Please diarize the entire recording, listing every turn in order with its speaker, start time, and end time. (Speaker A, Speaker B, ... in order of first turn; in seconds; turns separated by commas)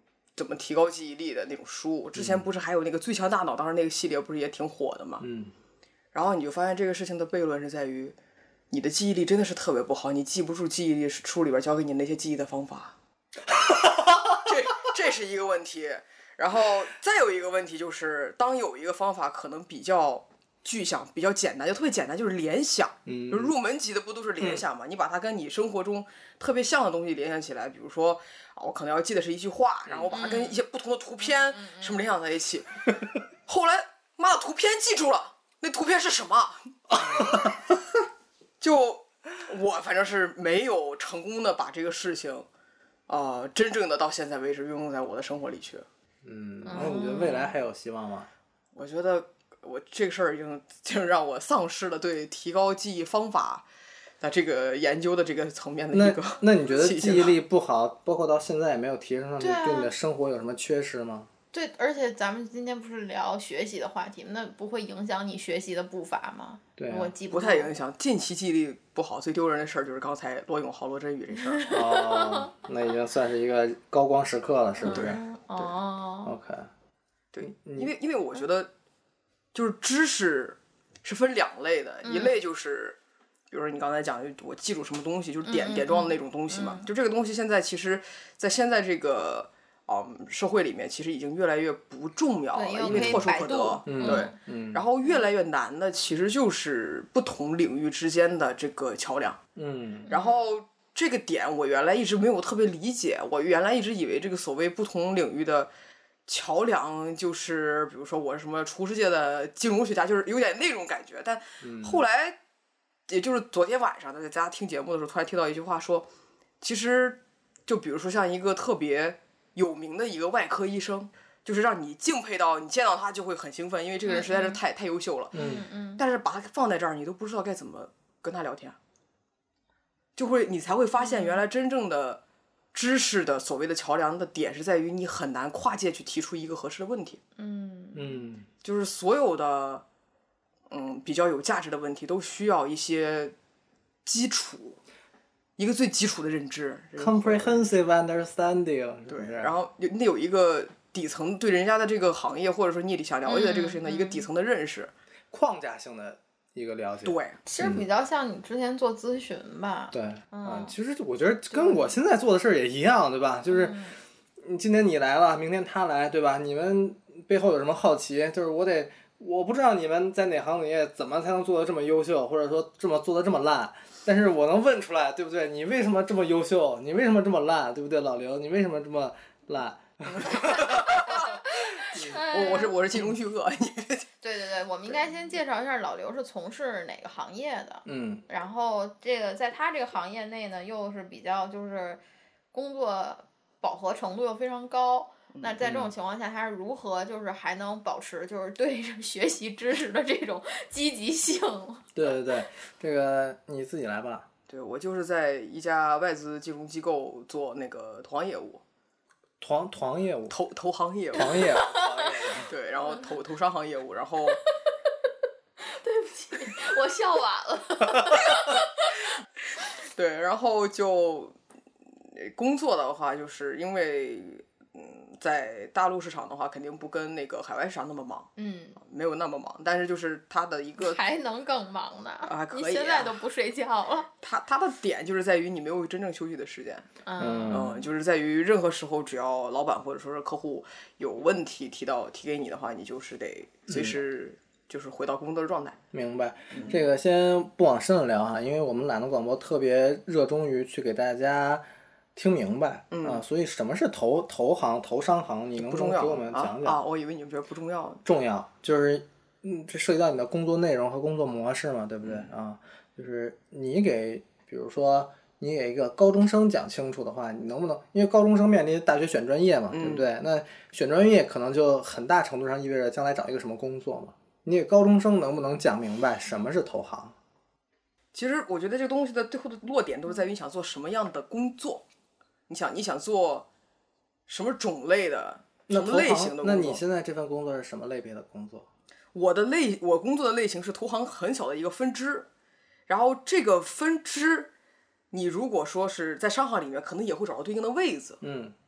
Speaker A: 0.3-5.2, Speaker B: 2.1-2.5, Speaker B: 5.2-5.5, Speaker A: 6.1-8.2, Speaker A: 8.7-12.9, Speaker B: 13.7-14.4, Speaker A: 14.3-32.9, Speaker B: 23.1-23.5, Speaker B: 29.9-30.1, Speaker C: 30.1-30.6, Speaker C: 31.2-32.0, Speaker A: 33.5-37.5, Speaker B: 36.9-37.5, Speaker A: 38.6-42.5, Speaker A: 43.1-45.9, Speaker B: 46.2-48.3, Speaker C: 46.6-47.5, Speaker A: 48.8-53.7, Speaker A: 54.2-57.4, Speaker B: 55.9-61.3, Speaker C: 59.4-59.9, Speaker C: 61.5-67.7, Speaker B: 66.8-67.1, Speaker A: 67.3-71.7, Speaker C: 71.3-72.5, Speaker B: 71.7-75.2, Speaker C: 74.8-76.3, Speaker A: 74.8-75.7, Speaker B: 76.2-76.7, Speaker A: 77.3-78.7, Speaker B: 77.4-77.9, Speaker A: 79.5-83.0, Speaker C: 82.0-82.4, Speaker A: 83.5-99.4, Speaker C: 85.5-86.9, Speaker C: 92.5-94.4, Speaker B: 92.9-93.3, Speaker B: 93.9-94.8, Speaker B: 99.6-100.1, Speaker C: 100.1-100.5, Speaker A: 100.1-105.7, Speaker A: 106.3-112.4, Speaker B: 111.6-112.0, Speaker A: 113.1-116.1, Speaker A: 116.6-125.4, Speaker C: 124.0-124.6, Speaker B: 125.3-125.7, Speaker C: 125.3-126.0, Speaker A: 126.0-128.8, Speaker A: 130.2-132.2, Speaker C: 131.0-131.4, Speaker A: 132.7-137.2, Speaker C: 137.4-138.2, Speaker B: 137.9-138.5, Speaker A: 138.6-139.8, Speaker A: 140.7-143.3, Speaker A: 144.1-144.8, Speaker A: 145.6-147.7, Speaker B: 147.0-149.5, Speaker A: 149.1-154.9, Speaker C: 153.3-154.3, Speaker B: 155.3-157.8, Speaker A: 157.1-157.4, Speaker C: 157.5-160.8, Speaker B: 159.9-163.8, Speaker C: 161.5-161.9, Speaker C: 163.5-164.0, Speaker B: 164.4-181.2, Speaker C: 180.3-182.8, Speaker A: 180.5-181.3, Speaker A: 181.8-184.1, Speaker B: 181.9-182.2, Speaker C: 184.2-192.0, Speaker B: 187.9-188.2, Speaker C: 192.5-202.1, Speaker B: 195.6-195.9, Speaker B: 201.9-204.3, Speaker A: 204.5-208.6, Speaker B: 209.4-210.4, Speaker A: 210.3-211.6, Speaker B: 211.1-212.5, Speaker C: 211.1-212.4, Speaker A: 212.5-214.4, Speaker C: 214.3-219.1, Speaker A: 220.0-221.3, Speaker A: 222.1-231.0, Speaker C: 228.4-228.8, Speaker C: 230.8-234.1, Speaker A: 232.2-233.2, Speaker A: 234.2-236.9, Speaker C: 237.0-237.8, Speaker B: 237.2-237.7, Speaker A: 237.5-245.8, Speaker B: 243.7-244.0, Speaker B: 245.9-251.6, Speaker B: 252.2-256.8, Speaker A: 252.9-253.2, Speaker A: 255.6-258.0, Speaker B: 258.1-277.2, Speaker A: 269.7-270.1, Speaker A: 278.1-281.8, Speaker A: 282.5-283.5, Speaker A: 284.3-286.8, Speaker B: 285.7-288.7, Speaker A: 289.1-292.3, Speaker A: 292.9-294.5, Speaker A: 295.1-298.2, Speaker B: 298.2-298.5